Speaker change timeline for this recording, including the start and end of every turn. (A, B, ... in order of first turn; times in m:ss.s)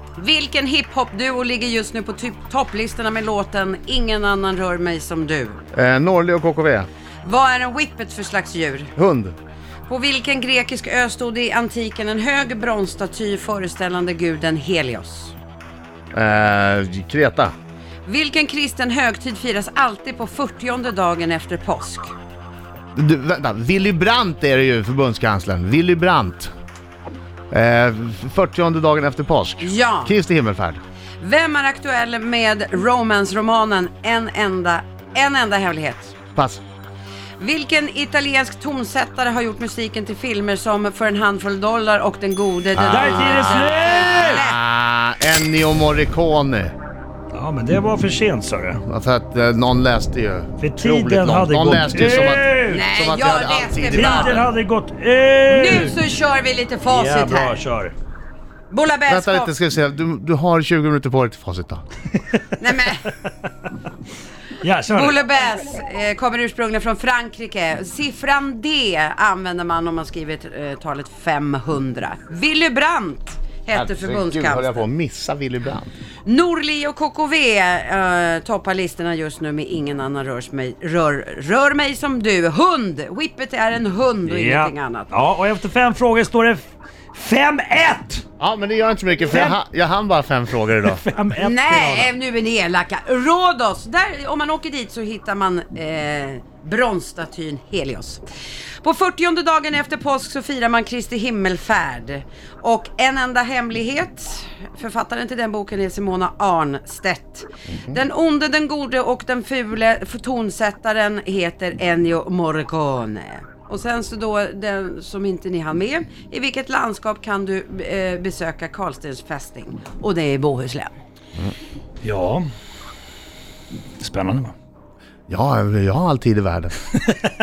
0:00.2-0:05.6 A
0:05.7-0:06.9 B
0:07.2-0:08.9 A
0:09.0-0:09.4 B
0:09.8-0:15.3 A
0:16.1-0:17.5 B
0:18.0-0:22.1 A
0:23.0-0:26.5 B
0:27.5-0:30.8 B
0:29.6-0:30.2 A
0:31.2-0:36.1 A
0:36.3-0:36.6 B
0:37.4-0:44.6 A
0:42.7-0:43.6 B
0:42.9-0:44.4 C
0:44.2-0:46.7 B
0:47.3-0:48.8 C
0:48.8-0:54.4 B
0:50.6-0:52.8 C
0:52.7-0:54.4 A
0:53.9-0:56.0 C
0:55.5-0:57.6 A
0:56.9-0:57.9 C
0:58.7-0:59.5 A
0:59.1-1:01.8 B
1:02.6-1:03.1 A
1:04.6-1:05.2 C
1:04.9-1:14.8 A
1:13.7-1:15.9 B
1:16.2-1:25.1 A
1:24.2-1:28.2 C
1:28.4-1:31.0 B
1:29.3-1:29.6 C
1:30.8-1:32.1 C
1:31.4-1:38.2 A
1:38.8-2:01.0 A
2:02.0-2:02.4 C
2:04.0-2:04.5 C
2:05.3-2:06.7 B